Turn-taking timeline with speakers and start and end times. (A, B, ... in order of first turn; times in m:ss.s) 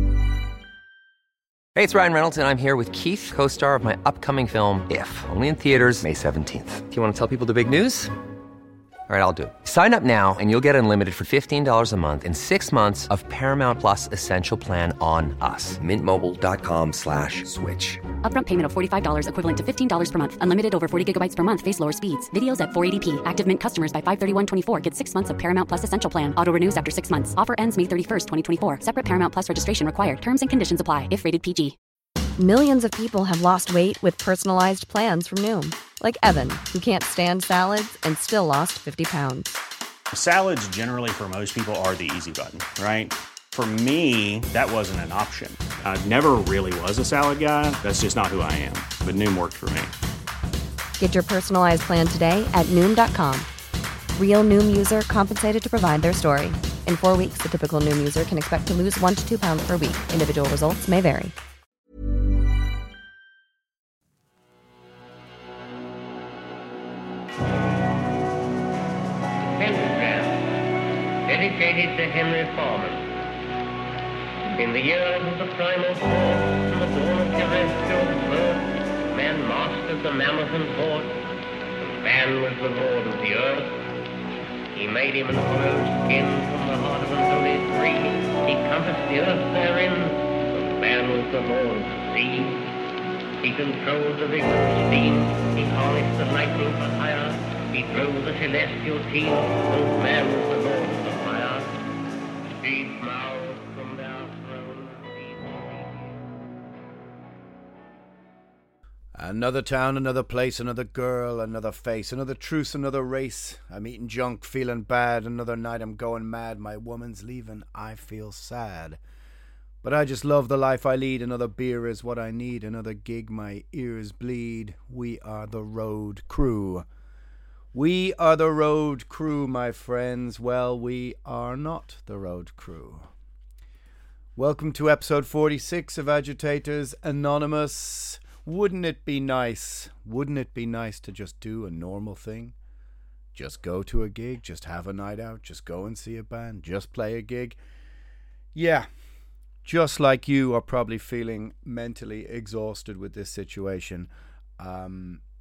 0:01.7-0:08.1 A
0:09.1-0:18.0 A
0:18.2-0:31.8 B
0:32.4-0:39.6 C
0:40.1-0:49.9 D
0:51.0-0:53.5 C
0:54.2-1:01.3 C
1:09.4-1:10.6 E
1:11.2-1:13.2 E
1:14.5-1:21.2 E
1:21.8-1:23.8 E
1:24.7-1:32.6 E
1:33.4-1:41.8 E
1:42.4-1:46.2 E
1:49.1-1:59.0 F
1:59.8-2:06.8 F
2:07.7-2:13.1 F
2:14.4-2:22.5 F
2:23.3-2:27.6 F
2:28.5-2:28.9 F
2:29.6-2:35.2 F